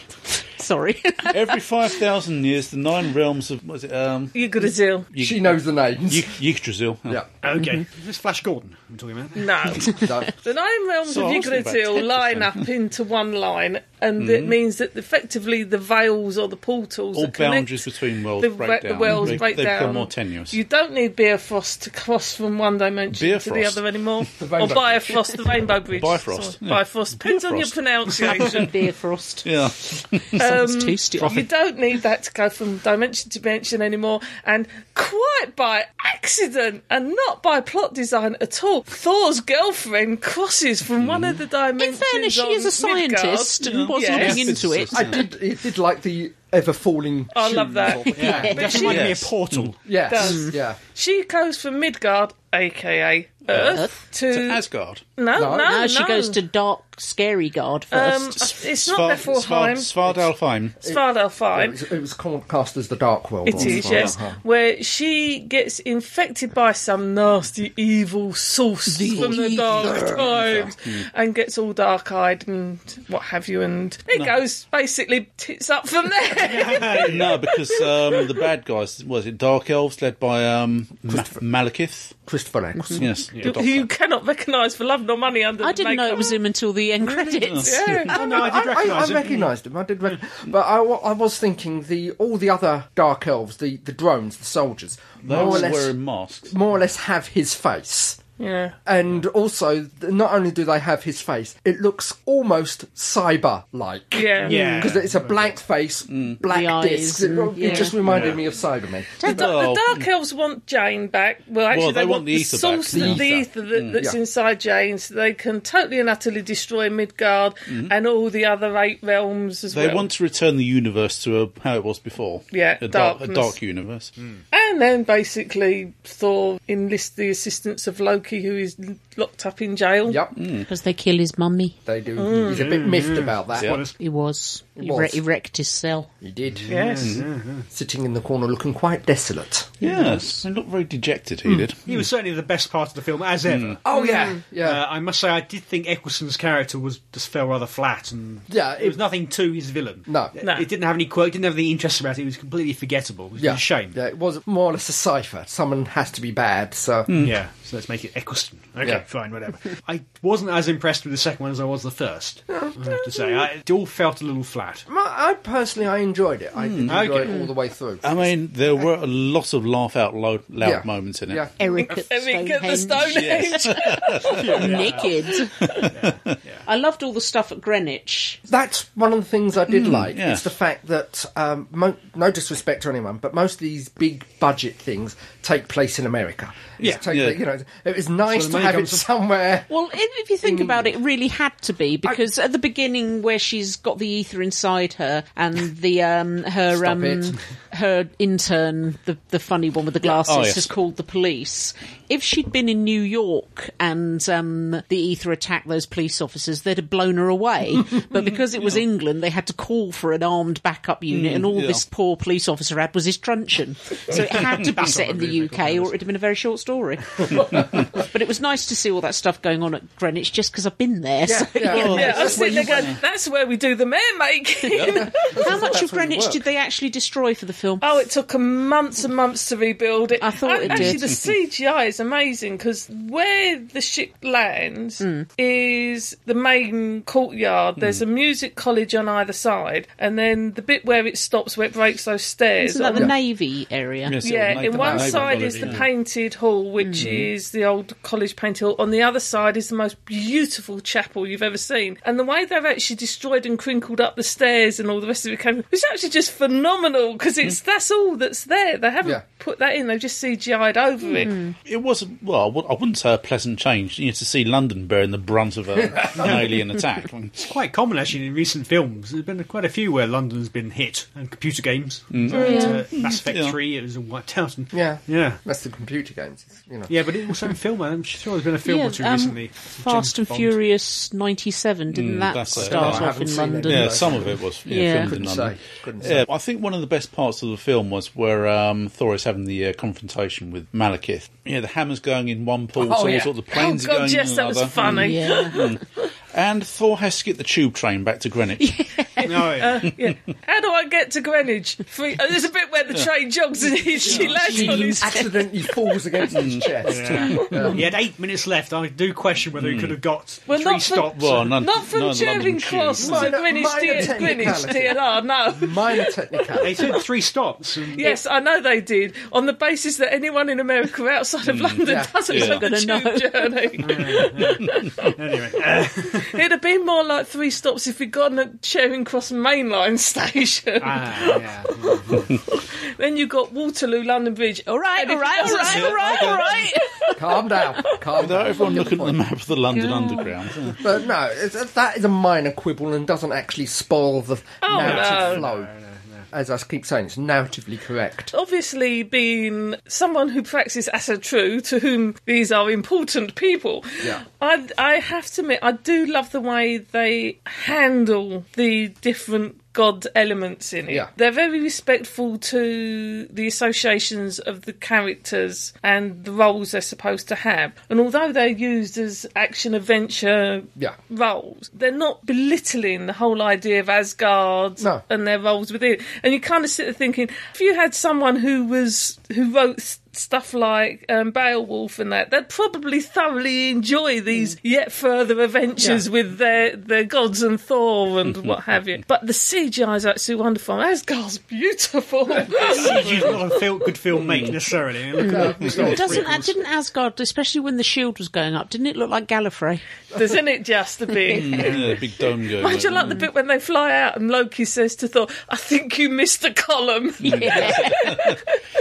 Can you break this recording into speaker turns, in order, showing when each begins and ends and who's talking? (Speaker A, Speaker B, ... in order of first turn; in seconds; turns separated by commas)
Speaker A: 0.4-1.6, Speaker B: 1.3-4.4, Speaker C: 4.3-5.1, Speaker B: 5.1-7.2, Speaker D: 5.2-6.3, Speaker E: 7.4-10.0, Speaker A: 7.6-7.8, Speaker C: 9.3-28.7, Speaker D: 9.9-10.3, Speaker B: 11.1-12.6, Speaker B: 14.2-14.6, Speaker B: 17.1-20.6, Speaker A: 19.1-19.4, Speaker B: 23.1-24.6, Speaker D: 24.4-25.1, Speaker B: 25.9-28.6, Speaker A: 28.6-29.5, Speaker B: 29.4-30.4, Speaker A: 30.3-31.5, Speaker C: 30.4-44.5, Speaker B: 41.0-41.4, Speaker A: 41.8-45.2, Speaker B: 43.6-45.2, Speaker D: 44.3-48.9, Speaker C: 47.3-49.0, Speaker A: 48.1-49.0, Speaker E: 48.2-49.8, Speaker B: 48.8-49.7, Speaker D: 49.8-50.8, Speaker C: 50.1-54.6, Speaker A: 50.2-50.5, Speaker A: 53.6-54.0, Speaker B: 54.3-55.0, Speaker C: 55.2-56.4, Speaker D: 55.4-55.8, Speaker A: 55.5-58.4, Speaker C: 57.9-60.2, Speaker B: 58.4-60.8, Speaker C: 60.8-61.8, Speaker D: 61.5-64.4, Speaker C: 63.5-78.4, Speaker B: 63.5-64.2, Speaker A: 68.9-70.3, Speaker D: 69.2-70.7, Speaker E: 76.4-77.4, Speaker B: 77.0-82.2, Speaker D: 81.1-81.4, Speaker D: 82.3-83.2, Speaker A: 82.8-83.0, Speaker B: 83.0-83.9, Speaker E: 83.3-83.6, Speaker C: 83.4-86.4, Speaker A: 85.6-88.1, Speaker B: 87.3-88.2, Speaker C: 87.6-88.5, Speaker E: 88.1-89.5, Speaker D: 88.2-98.2, Speaker E: 95.2-95.7, Speaker B: 95.3-96.5, Speaker C: 98.4-98.8, Speaker D: 98.8-109.5, Speaker C: 104.1-104.9, Speaker E: 104.4-105.6, Speaker B: 106.1-106.4, Speaker A: 106.5-108.0, Speaker E: 107.8-108.4, Speaker C: 109.2-120.1, Speaker B: 109.3-110.1, Speaker B: 111.7-114.0, Speaker D: 112.9-113.3, Speaker B: 117.7-118.0, Speaker B: 119.7-124.1, Speaker C: 122.5-123.6, Speaker C: 124.5-130.2, Speaker D: 130.1-130.3, Speaker B: 130.4-130.7, Speaker A: 130.7-131.8, Speaker D: 131.9-133.8, Speaker C: 132.2-132.7, Speaker E: 132.4-133.9, Speaker A: 134.0-136.1, Speaker D: 134.8-135.2, Speaker D: 136.2-136.9, Speaker E: 136.5-137.7, Speaker C: 136.7-137.1, Speaker D: 137.7-139.8, Speaker B: 139.8-142.1, Speaker E: 139.8-140.4, Speaker E: 141.9-154.0, Speaker B: 143.5-143.8, Speaker D: 143.8-144.8, Speaker D: 148.5-149.0, Speaker D: 150.1-150.3, Speaker C: 150.4-150.7, Speaker D: 153.4-157.1, Speaker B: 157.1-157.4, Speaker E: 157.2-164.9, Speaker D: 164.9-168.3, Speaker B: 166.6-167.2, Speaker E: 166.9-167.4, Speaker B: 168.0-171.5, Speaker D: 170.6-171.5, Speaker A: 171.6-175.8, Speaker C: 171.8-175.8, Speaker B: 173.1-174.6, Speaker E: 174.4-175.3, Speaker B: 175.6-176.4, Speaker E: 175.9-176.6, Speaker A: 176.7-178.4, Speaker D: 178.5-189.7, Speaker B: 179.7-180.4, Speaker B: 186.8-187.4, Speaker E: 188.3-189.1, Speaker A: 189.7-222.4, Speaker D: 190.4-190.9, Speaker D: 196.7-197.4, Speaker B: 200.1-200.7, Speaker B: 211.1-211.8, Speaker E: 214.1-215.9, Speaker B: 217.4-217.9, Speaker D: 221.2-222.9, Speaker B: 221.7-223.0, Speaker C: 221.8-225.3, Speaker B: 224.8-225.1, Speaker D: 224.8-226.4, Speaker A: 225.3-227.9, Speaker C: 227.8-243.1, Speaker A: 230.2-231.0, Speaker B: 230.7-231.3, Speaker A: 235.0-235.3, Speaker A: 242.6-244.2, Speaker B: 244.1-245.9, Speaker C: 244.2-261.4, Speaker D: 244.8-245.1, Speaker E: 245.1-245.8, Speaker A: 246.8-247.1, Speaker B: 247.0-247.3, Speaker A: 261.2-261.5, Speaker B: 261.6-267.5, Speaker D: 265.8-266.5, Speaker E: 266.2-266.7, Speaker E: 267.5-275.4, Speaker B: 272.1-273.6, Speaker C: 272.3-272.8, Speaker A: 272.4-272.8, Speaker D: 274.7-277.0, Speaker E: 276.9-280.6, Speaker A: 278.6-285.1, Speaker B: 281.9-283.1, Speaker D: 282.6-284.4, Speaker B: 283.7-298.7, Speaker D: 285.1-286.3, Speaker D: 292.8-293.3, Speaker C: 293.5-295.8, Speaker A: 294.8-295.7, Speaker A: 298.6-299.6, Speaker E: 299.3-299.8, Speaker C: 299.6-305.2, Speaker B: 304.0-304.3, Speaker D: 304.1-307.9, Speaker A: 304.1-305.4, Speaker B: 306.3-307.6, Speaker E: 306.9-311.5, Speaker B: 309.6-310.0, Speaker C: 310.5-317.0, Speaker B: 311.1-313.4, Speaker D: 313.0-316.9, Speaker E: 316.6-318.1, Speaker C: 317.9-325.1, Speaker B: 321.4-322.6, Speaker D: 321.9-322.1, Speaker A: 322.3-323.5, Speaker E: 323.8-326.4, Speaker B: 324.6-325.1, Speaker C: 326.2-337.2, Speaker E: 330.8-332.3, Speaker A: 334.7-337.2, Speaker E: 335.4-336.4, Speaker D: 337.2-339.2, Speaker B: 338.1-340.8, Speaker A: 339.7-340.4, Speaker D: 340.8-345.7, Speaker C: 344.6-345.4, Speaker E: 344.7-346.3, Speaker D: 346.3-348.3, Speaker C: 348.3-393.4, Speaker D: 385.8-386.1, Speaker E: 392.6-396.5, Speaker B: 394.2-394.6, Speaker A: 395.2-399.8, Speaker D: 395.2-396.5, Speaker C: 400.1-401.8, Speaker B: 401.3-403.2, Speaker A: 401.4-401.6, Speaker C: 402.6-408.5, Speaker A: 407.2-408.1, Speaker B: 407.2-408.4